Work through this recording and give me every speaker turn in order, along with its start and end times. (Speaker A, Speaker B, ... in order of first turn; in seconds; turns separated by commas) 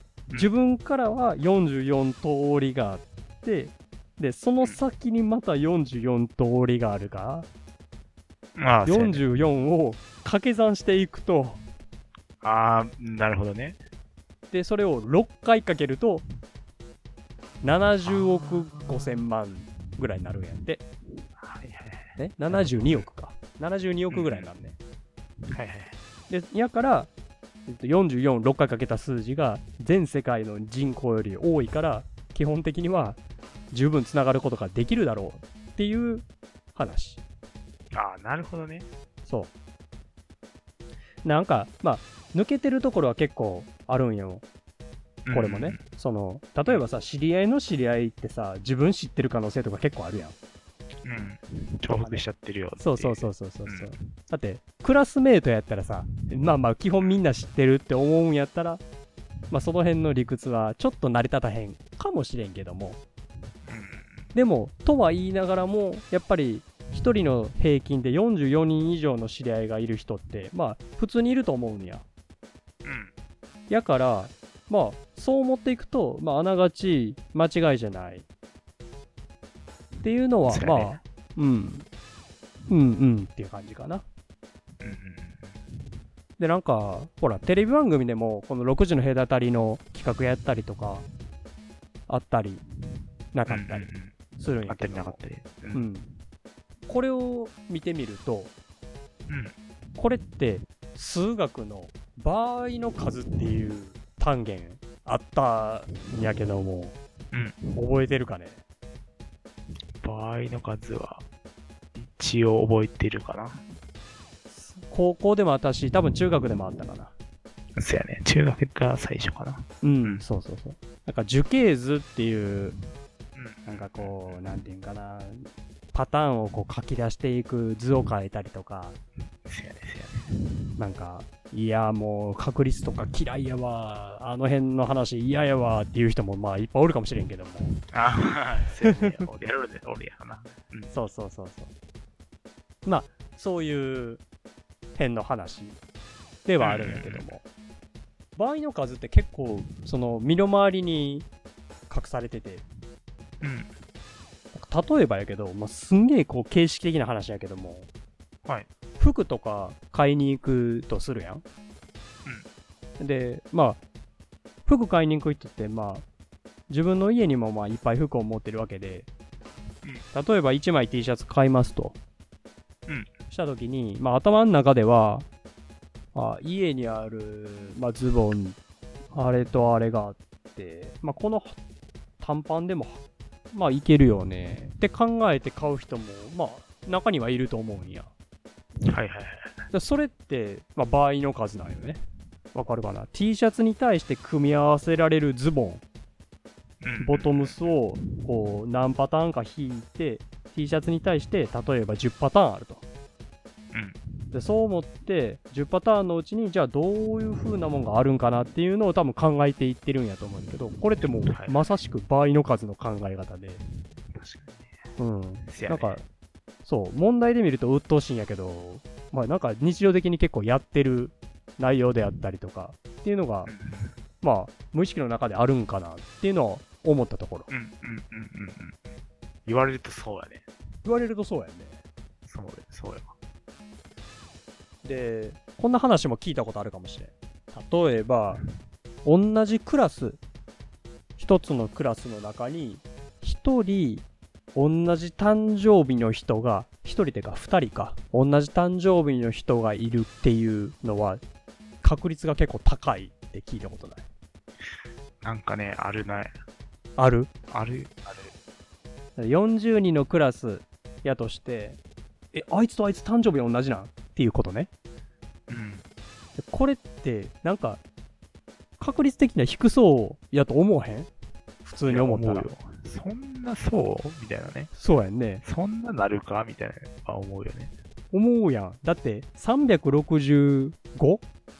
Speaker A: 0.3-7.5, Speaker B: 8.6-9.2, Speaker A: 8.8-11.6, Speaker B: 12.4-13.8, Speaker A: 14.5-16.2, Speaker A: 17.6-20.8, Speaker B: 18.0-19.2, Speaker B: 21.4-23.1, Speaker A: 22.2-24.8, Speaker B: 24.1-24.5, Speaker B: 25.5-26.0, Speaker A: 26.3-27.1, Speaker A: 27.7-33.2, Speaker A: 33.7-37.2, Speaker B: 37.9-38.9, Speaker A: 39.2-39.5, Speaker A: 41.2-44.4, Speaker B: 45.2-45.8, Speaker A: 45.3-50.4, Speaker B: 51.0-53.9, Speaker A: 51.9-52.2, Speaker A: 52.8-58.8, Speaker A: 59.5-63.0, Speaker B: 63.7-64.3, Speaker A: 64.3-72.0, Speaker B: 72.8-73.1, Speaker A: 73.7-78.3, Speaker A: 80.0-81.8, Speaker B: 80.5-81.0, Speaker A: 82.7-84.0, Speaker B: 84.8-85.5, Speaker A: 86.4-91.0, Speaker A: 92.1-92.6, Speaker A: 93.3-95.2, Speaker B: 93.5-94.1, Speaker B: 94.7-95.8, Speaker A: 95.7-96.1, Speaker A: 96.9-98.5, Speaker B: 99.3-99.5, Speaker A: 100.0-107.0, Speaker A: 107.7-108.6, Speaker B: 110.0-111.2, Speaker B: 112.0-113.6, Speaker A: 114.5-117.1, Speaker B: 117.8-120.2, Speaker A: 119.8-122.8, Speaker B: 123.3-124.4, Speaker A: 123.7-129.0, Speaker B: 129.5-130.2, Speaker A: 130.8-137.7, Speaker B: 137.7-140.9, Speaker A: 140.9-141.7, Speaker A: 142.8-144.2, Speaker A: 144.9-145.8, Speaker A: 146.4-147.4, Speaker B: 146.6-147.2, Speaker A: 148.3-151.3, Speaker A: 151.9-152.6, Speaker B: 153.4-153.7, Speaker A: 154.5-157.9, Speaker A: 159.0-161.4, Speaker A: 163.0-163.8, Speaker A: 164.7-166.0, Speaker A: 166.7-169.1, Speaker A: 170.1-172.0, Speaker A: 173.3-175.2, Speaker A: 176.1-178.6, Speaker A: 179.1-181.6, Speaker A: 182.2-183.0, Speaker A: 183.5-188.1, Speaker B: 188.9-189.5, Speaker A: 189.7-192.0, Speaker A: 192.5-195.8, Speaker B: 196.8-197.6, Speaker A: 197.0-202.8, Speaker B: 203.7-204.0, Speaker A: 204.3-213.6, Speaker B: 211.3-211.6, Speaker B: 214.1-214.7, Speaker A: 215.0-216.0, Speaker B: 215.4-216.0, Speaker A: 216.6-223.5, Speaker B: 223.5-223.9, Speaker A: 224.2-227.5, Speaker B: 227.5-228.9, Speaker B: 229.4-230.4, Speaker A: 230.8-231.8, Speaker B: 232.2-233.1, Speaker A: 234.8-238.4, Speaker A: 239.0-240.2, Speaker A: 241.2-251.2, Speaker A: 251.8-254.0, Speaker B: 255.2-256.3, Speaker A: 256.9-257.3, Speaker B: 257.5-258.3, Speaker A: 259.1-261.8, Speaker A: 262.3-264.7, Speaker B: 265.5-265.8, Speaker A: 266.4-267.8, Speaker A: 268.8-271.1, Speaker A: 271.6-272.5, Speaker B: 271.9-274.7, Speaker A: 274.7-275.4, Speaker B: 275.4-277.7, Speaker A: 278.1-281.2